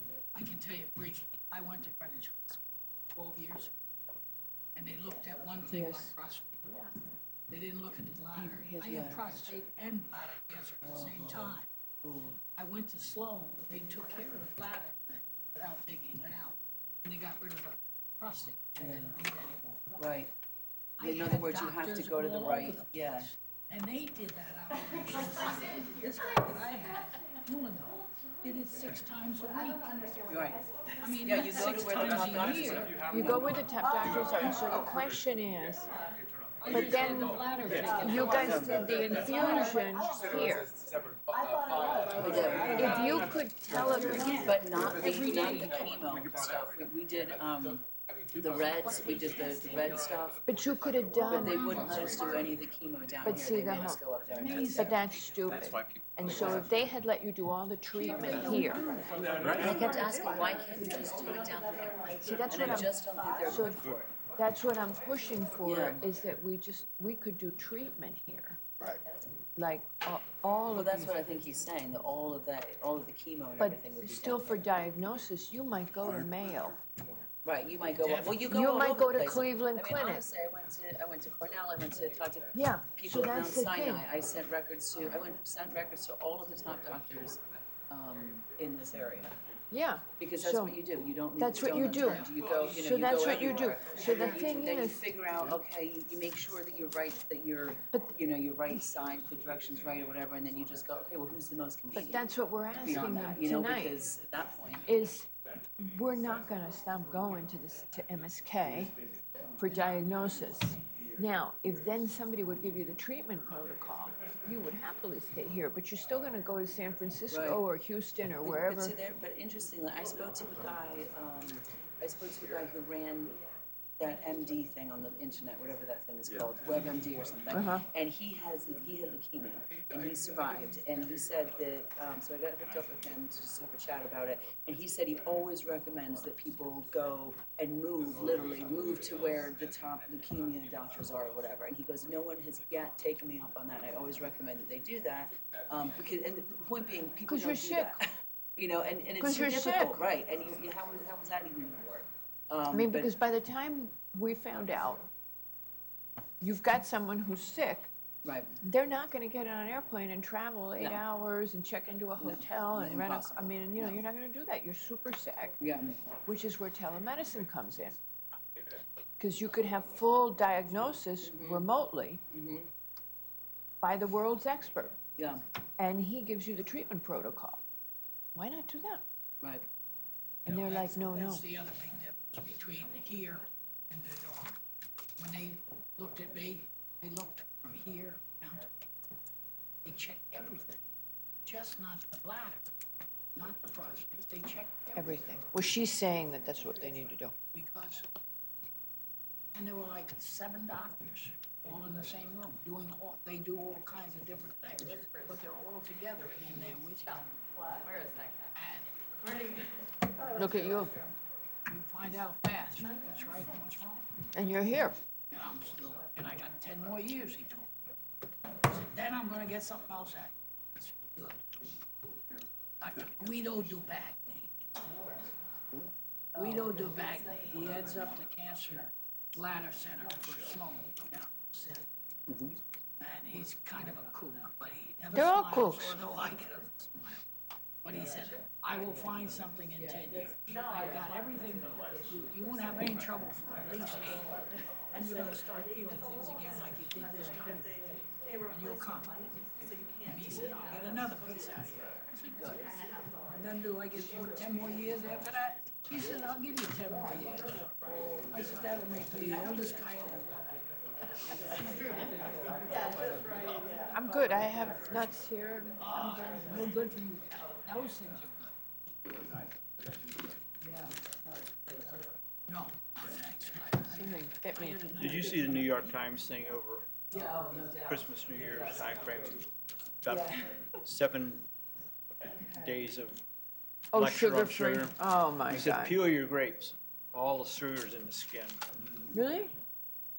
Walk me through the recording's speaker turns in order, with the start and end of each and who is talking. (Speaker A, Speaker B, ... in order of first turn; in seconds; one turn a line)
Speaker A: 0.3-3.7
Speaker A: 4.7-6.7
Speaker B: 5.7-6.1
Speaker A: 7.5-11.7
Speaker B: 8.3-9.6
Speaker C: 8.9-9.2
Speaker C: 10.8-12.4
Speaker A: 12.6-19.9
Speaker C: 18.8-19.1
Speaker C: 20.0-20.3
Speaker A: 21.0-29.9
Speaker C: 21.0-23.3
Speaker C: 30.3-30.6
Speaker A: 31.0-33.0
Speaker C: 31.2-33.5
Speaker B: 33.1-35.9
Speaker A: 36.6-40.0
Speaker B: 36.7-37.5
Speaker B: 38.0-40.7
Speaker C: 38.1-39.1
Speaker A: 42.1-43.2
Speaker C: 42.2-43.2
Speaker B: 42.7-45.6
Speaker A: 43.9-45.9
Speaker C: 44.2-50.4
Speaker A: 48.8-49.7
Speaker B: 50.5-52.5
Speaker C: 51.2-55.0
Speaker B: 53.2-54.0
Speaker A: 54.3-55.0
Speaker B: 54.7-58.8
Speaker A: 58.0-60.0
Speaker C: 59.4-64.1
Speaker B: 62.2-62.9
Speaker B: 63.4-68.9
Speaker C: 65.6-66.0
Speaker B: 69.6-71.2
Speaker C: 70.7-74.7
Speaker B: 73.6-76.8
Speaker C: 77.4-87.4
Speaker A: 78.0-78.4
Speaker B: 78.5-80.2
Speaker B: 82.5-84.0
Speaker C: 87.9-89.3
Speaker B: 89.7-90.8
Speaker C: 90.2-102.2
Speaker B: 91.4-95.1
Speaker A: 92.0-92.3
Speaker A: 93.9-94.5
Speaker B: 101.9-104.0
Speaker C: 102.8-104.8
Speaker B: 104.9-105.3
Speaker B: 105.8-108.9
Speaker B: 109.6-118.9
Speaker C: 117.3-117.6
Speaker C: 118.4-123.4
Speaker C: 124.0-148.1
Speaker B: 127.5-127.8
Speaker B: 147.3-148.0
Speaker C: 148.6-153.1
Speaker B: 149.2-150.0
Speaker B: 152.7-155.1
Speaker B: 156.4-157.9
Speaker C: 158.2-158.5
Speaker B: 158.6-165.6
Speaker C: 160.8-161.0
Speaker C: 162.2-164.0
Speaker C: 165.6-166.0
Speaker B: 166.2-168.0
Speaker B: 169.2-172.2
Speaker C: 171.2-171.7
Speaker C: 172.3-172.7
Speaker B: 173.8-175.0
Speaker C: 175.2-175.4
Speaker B: 175.8-177.6
Speaker B: 178.3-179.0
Speaker B: 180.4-181.4
Speaker A: 180.4-184.6
Speaker A: 185.2-188.8
Speaker A: 189.8-190.8
Speaker A: 191.4-192.7
Speaker A: 193.3-195.3
Speaker B: 194.9-197.3
Speaker A: 197.5-198.1
Speaker A: 199.5-207.4
Speaker A: 208.5-208.9
Speaker B: 210.3-211.0
Speaker A: 211.7-214.0
Speaker B: 214.3-215.0
Speaker A: 215.3-217.7
Speaker A: 218.6-221.5
Speaker A: 222.8-225.2
Speaker A: 226.3-231.9
Speaker C: 232.3-232.5
Speaker A: 233.0-237.2
Speaker B: 235.1-236.0
Speaker A: 237.8-244.3
Speaker A: 244.9-247.8
Speaker A: 248.5-249.3
Speaker A: 250.0-252.7
Speaker A: 253.3-257.5
Speaker A: 258.3-260.3
Speaker A: 261.4-262.6
Speaker B: 263.9-266.4
Speaker A: 265.8-268.5
Speaker C: 270.6-270.9
Speaker A: 272.5-275.9
Speaker B: 273.9-274.8
Speaker D: 275.0-276.9
Speaker C: 277.1-279.1
Speaker D: 277.9-279.5
Speaker D: 280.0-281.5
Speaker C: 280.1-280.4
Speaker D: 282.4-283.2
Speaker D: 283.9-284.9
Speaker B: 283.9-285.9
Speaker D: 285.5-288.6
Speaker B: 289.1-289.5